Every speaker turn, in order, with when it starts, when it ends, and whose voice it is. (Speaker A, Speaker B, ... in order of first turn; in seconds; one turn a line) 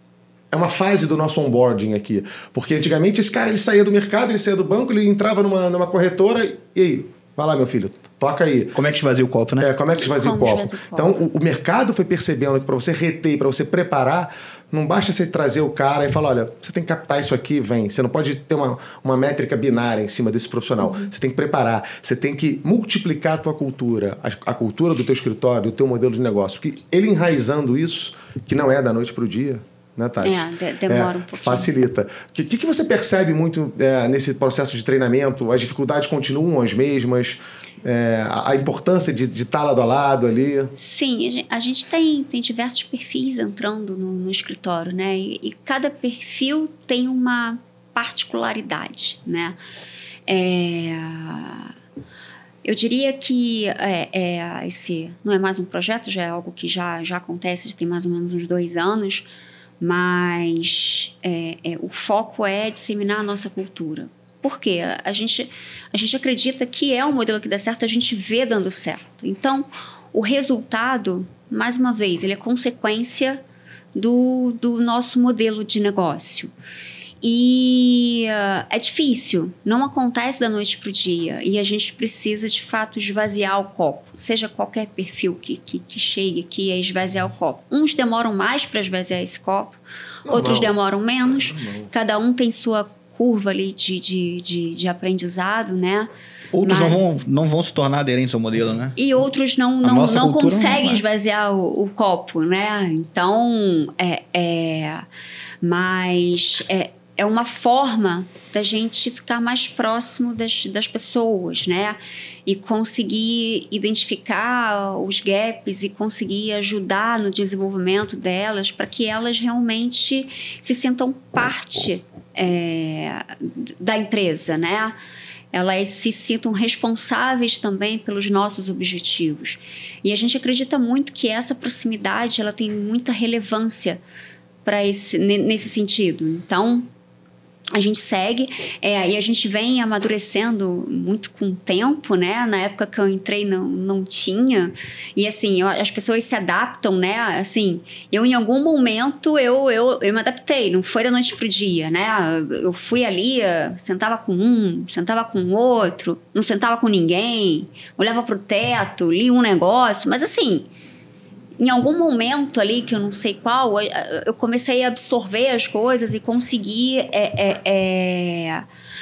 Speaker A: 0.5-8.8
Speaker B: 8.7-9.7
Speaker A: 9.6-40.7
Speaker C: 9.9-11.2
Speaker C: 20.8-21.1
Speaker C: 30.2-31.7
Speaker C: 40.8-49.6
Speaker C: 50.3-51.7
Speaker C: 52.6-59.3
Speaker C: 59.8-73.4
Speaker C: 73.9-76.5
Speaker C: 77.2-96.1
Speaker A: 90.2-90.7
Speaker A: 91.5-91.9
Speaker B: 96.5-99.0
Speaker C: 96.6-97.0
Speaker C: 99.0-105.0
Speaker B: 99.8-101.0
Speaker C: 105.6-125.0
Speaker C: 125.5-134.0
Speaker C: 134.6-136.9
Speaker C: 137.7-160.7
Speaker C: 161.6-168.6